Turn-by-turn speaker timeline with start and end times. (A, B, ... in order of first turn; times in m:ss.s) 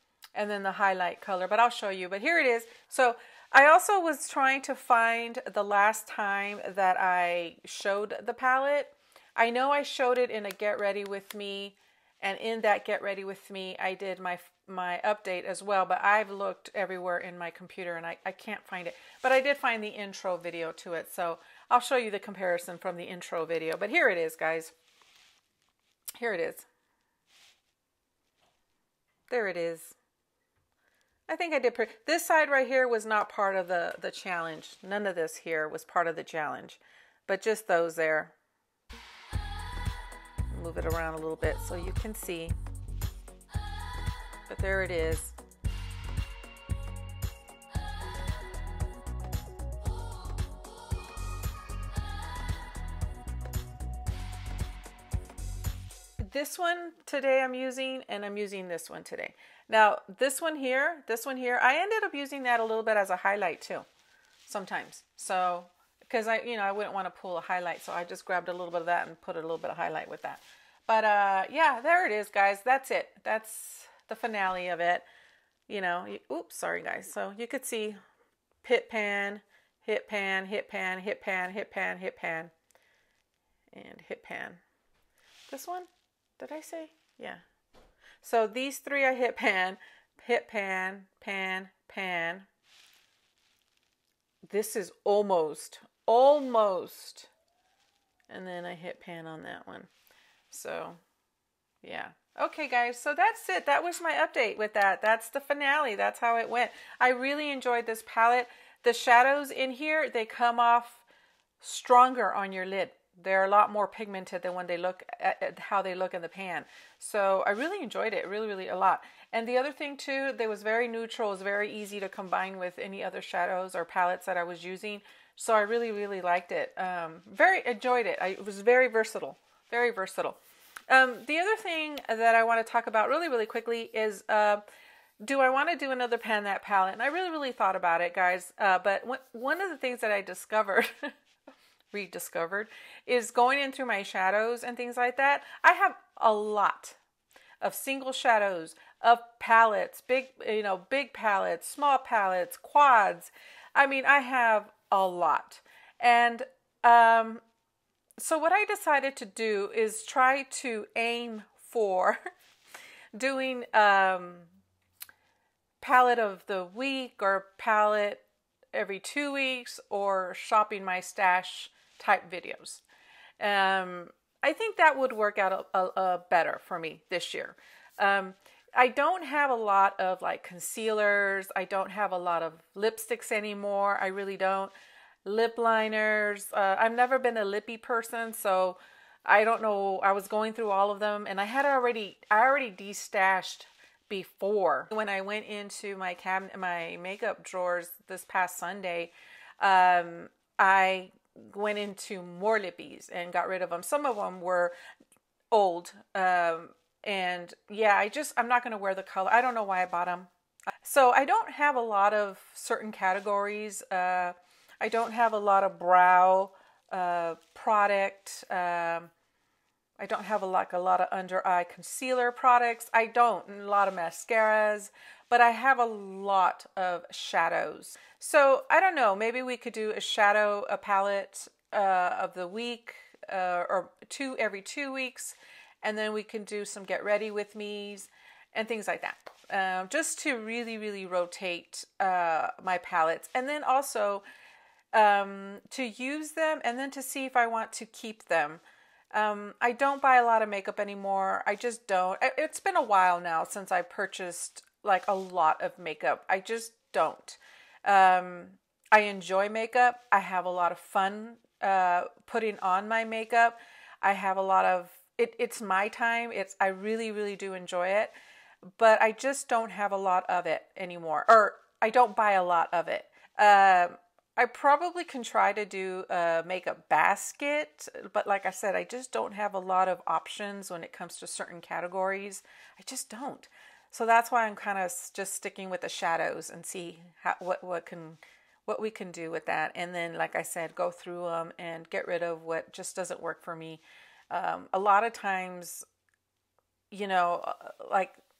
0:00.3-0:24.7 A
0:26.2-0:26.7 A
0:29.3-0:30.0 A
0:31.3-0:38.3 A
0:40.5-0:42.5 A
0:44.5-0:45.3 A
0:56.2-1:03.8 A
1:04.4-1:15.0 A
1:15.7-1:18.0 A
1:18.6-1:22.5 A
1:23.7-1:24.6 A
1:25.5-1:27.4 A
1:28.2-1:32.5 A
1:34.5-1:37.3 A
1:38.3-1:39.9 A
1:40.5-1:41.0 A
1:41.8-1:51.0 A
1:51.6-2:10.4 A
2:10.9-2:14.6 A
2:15.2-2:21.1 A
2:21.9-2:27.0 A
2:27.6-2:37.4 A
2:38.2-2:42.2 A
2:43.1-2:44.5 A
2:45.8-2:52.8 A
2:53.4-3:04.7 A
3:05.2-3:24.7 A
3:25.5-3:30.3 A
3:30.8-3:39.1 A
3:40.0-4:04.2 A
4:04.9-4:08.6 A
4:09.1-4:28.1 A
4:28.7-4:55.8 A
4:56.9-4:58.2 A